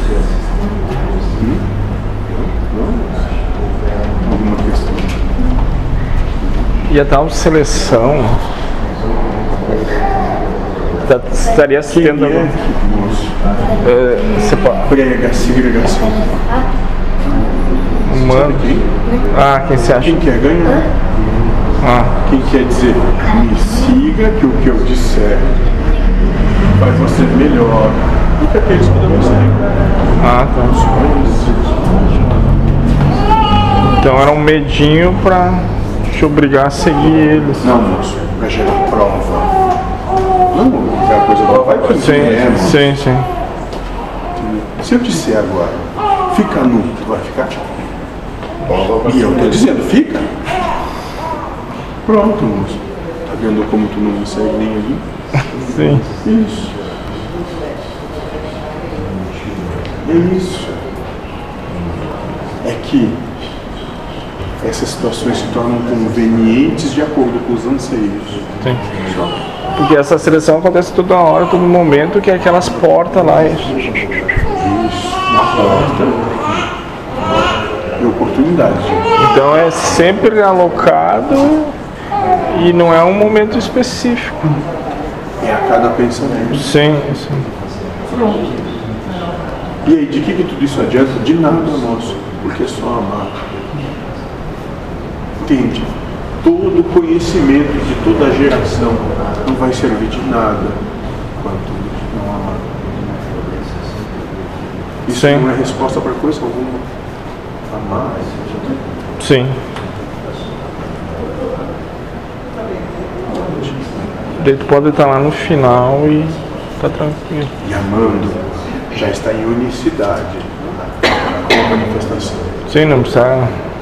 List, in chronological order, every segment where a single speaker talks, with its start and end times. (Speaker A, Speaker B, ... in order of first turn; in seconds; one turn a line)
Speaker A: 1.4-1.7
Speaker A: 2.3-3.2
Speaker A: 4.2-5.1
Speaker B: 6.8-8.4
Speaker B: 11.0-12.6
Speaker A: 11.9-13.4
Speaker B: 13.8-14.9
Speaker A: 14.8-16.4
Speaker B: 18.0-20.2
Speaker A: 18.1-18.9
Speaker A: 20.0-20.9
Speaker B: 21.8-22.1
Speaker A: 22.2-25.5
Speaker A: 26.7-29.9
Speaker B: 30.2-30.8
Speaker A: 30.5-31.6
Speaker B: 33.9-37.7
Speaker A: 37.6-39.5
Speaker A: 40.5-42.8
Speaker B: 41.8-43.3
Speaker A: 44.4-47.7
Speaker A: 49.0-50.3
Speaker A: 52.0-55.0
Speaker B: 55.5-56.0
Speaker A: 56.2-56.8
Speaker A: 60.0-60.8
Speaker A: 62.6-63.2
Speaker A: 64.6-68.4
Speaker A: 69.0-69.3
Speaker B: 69.8-74.1
Speaker A: 74.5-76.3
Speaker A: 78.0-79.1
Speaker B: 79.2-81.7
Speaker B: 82.5-84.4
Speaker A: 85.4-86.7
Speaker B: 86.5-87.5
Speaker A: 89.8-93.3
Speaker A: 95.4-100.8
Speaker A: 101.3-102.8
Speaker A: 105.0-106.9
Speaker B: 105.1-105.5
Speaker A: 107.7-108.4
Speaker B: 109.2-109.6
Speaker A: 113.4-113.8
Speaker B: 114.4-117.5
Speaker A: 117.6-122.5
Speaker B: 122.7-123.6